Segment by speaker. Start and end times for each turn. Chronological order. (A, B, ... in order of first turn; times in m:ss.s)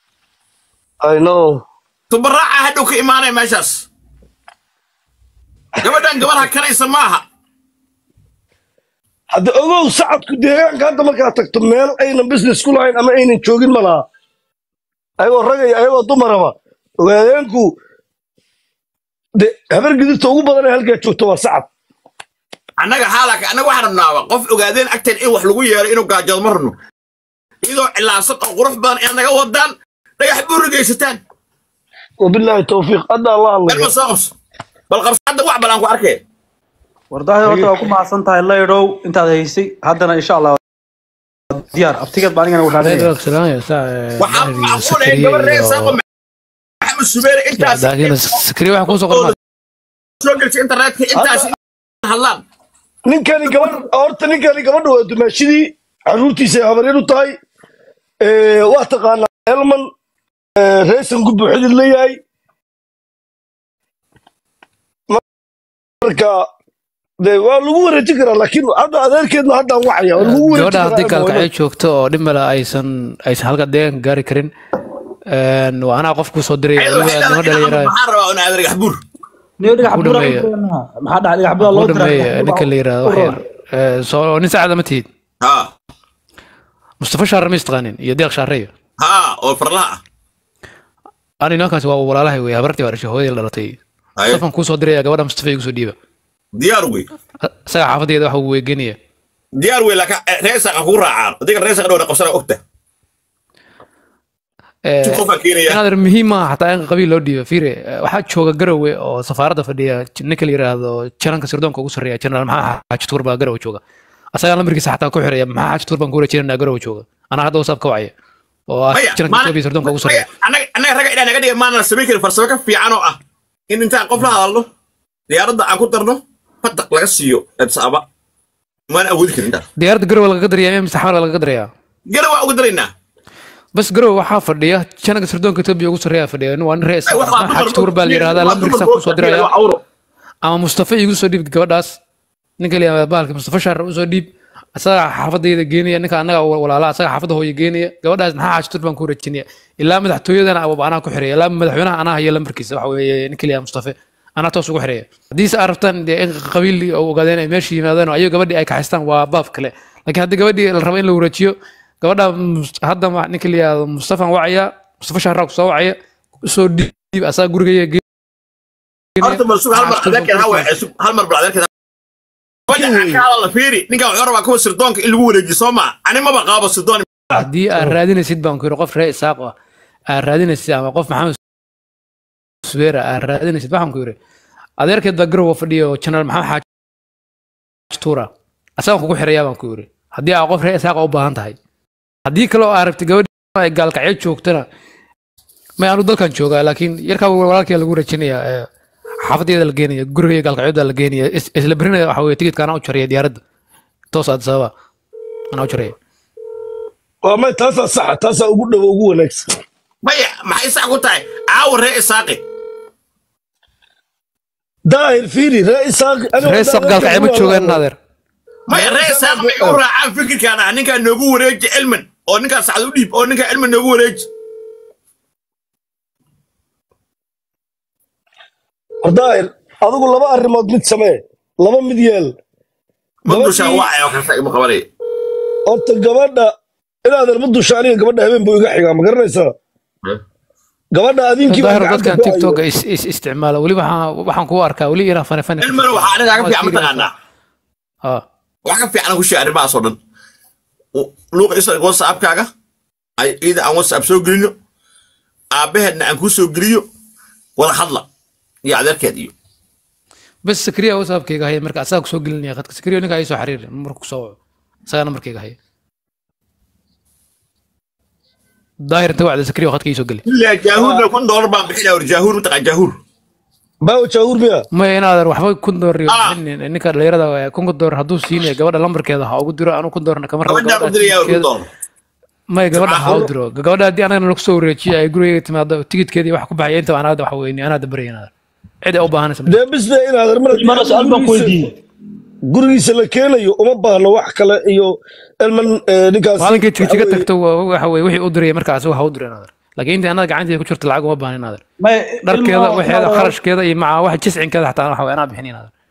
0:01.0-0:01.6 A
0:02.1-0:03.9 B
0:05.8-0:07.2 B
0:05.8-0:06.3 A
0:09.3-0:14.0 A
0:15.2-0:17.7 A
0:19.4-0:21.7 A
0:22.8-0:26.8 B
0:27.6-0:31.2 B
0:32.2-0:33.9 A
0:33.7-0:34.3 B
0:34.9-0:36.2 B
0:37.1-0:40.6 C
0:41.5-0:43.1 C
0:42.8-0:46.0 D
0:44.2-0:46.0 B
0:46.8-0:48.4 B
0:47.6-0:49.3 D
0:48.9-0:49.3 B
0:50.2-0:52.4 B
0:51.1-0:51.5 A
0:53.0-0:57.3 A
0:58.2-0:59.8 A
1:00.6-1:02.2 A
1:06.0-1:06.4 A
1:07.2-1:11.5 A
1:10.2-1:14.5 D
1:15.3-1:17.9 D
1:16.8-1:19.0 B
1:19.6-1:23.4 C
1:19.8-1:20.5 D
1:21.6-1:25.1 D
1:25.4-1:25.7 B
1:27.0-1:28.7 D
1:29.0-1:30.0 B
1:31.4-1:36.0 D
1:34.2-1:34.4 B
1:36.6-1:37.1 B
1:37.4-1:39.0 D
1:39.6-1:42.6 B
1:44.8-1:53.8 D
1:45.0-1:45.8 B
1:54.3-1:58.1 D
1:58.7-2:00.3 D
1:58.9-2:03.2 B
2:03.7-2:04.7 B
2:05.3-2:08.0 B
2:08.9-2:09.6 B
2:09.8-2:11.7 D
2:12.1-2:12.9 B
2:13.7-2:19.5 D
2:17.1-2:19.8 B
2:20.4-2:22.0 D
2:22.6-2:48.0 D
2:49.2-2:50.7 D
2:49.2-2:51.7 B
2:52.7-2:53.2 A
2:52.7-2:57.1 B
2:57.3-2:59.5 D
3:00.1-3:01.4 D
3:02.6-3:04.2 D
3:04.8-3:06.6 D
3:07.9-3:11.6 D
3:12.2-3:14.6 D
3:15.8-3:18.6 D
3:19.3-3:23.4 D
3:24.1-3:24.7 D
3:25.5-3:25.9 D
3:27.2-3:29.5 A
3:30.0-3:32.4 B
3:34.9-3:37.8 A
3:36.4-3:38.0 D
3:38.7-3:44.3 B
3:38.7-3:39.8 A
3:49.0-3:52.3 A
3:53.2-3:54.9 B
3:53.3-3:53.9 A
3:55.7-3:56.5 A
3:57.0-3:59.5 A
4:00.9-4:02.6 A
4:01.5-4:07.1 D
4:05.6-4:07.1 B
4:08.6-4:10.0 B
4:11.0-4:12.5 B
4:13.2-4:14.5 B
4:15.5-4:16.8 B
4:17.6-4:18.1 B
4:18.6-4:19.3 B
4:20.4-4:25.6 D
4:28.8-4:30.2 D
4:30.3-4:33.0 B
4:30.8-4:31.0 A
4:33.8-4:34.6 A
4:34.8-4:41.5 D
4:36.1-4:36.4 B
4:40.4-4:41.7 B
4:42.5-4:48.3 D
4:42.7-4:43.3 B
4:48.8-4:49.6 D
4:49.5-4:51.6 A
4:50.5-4:51.7 C
4:52.5-4:57.2 A
4:56.4-5:01.6 D
5:01.8-5:03.3 C
5:02.2-5:05.7 D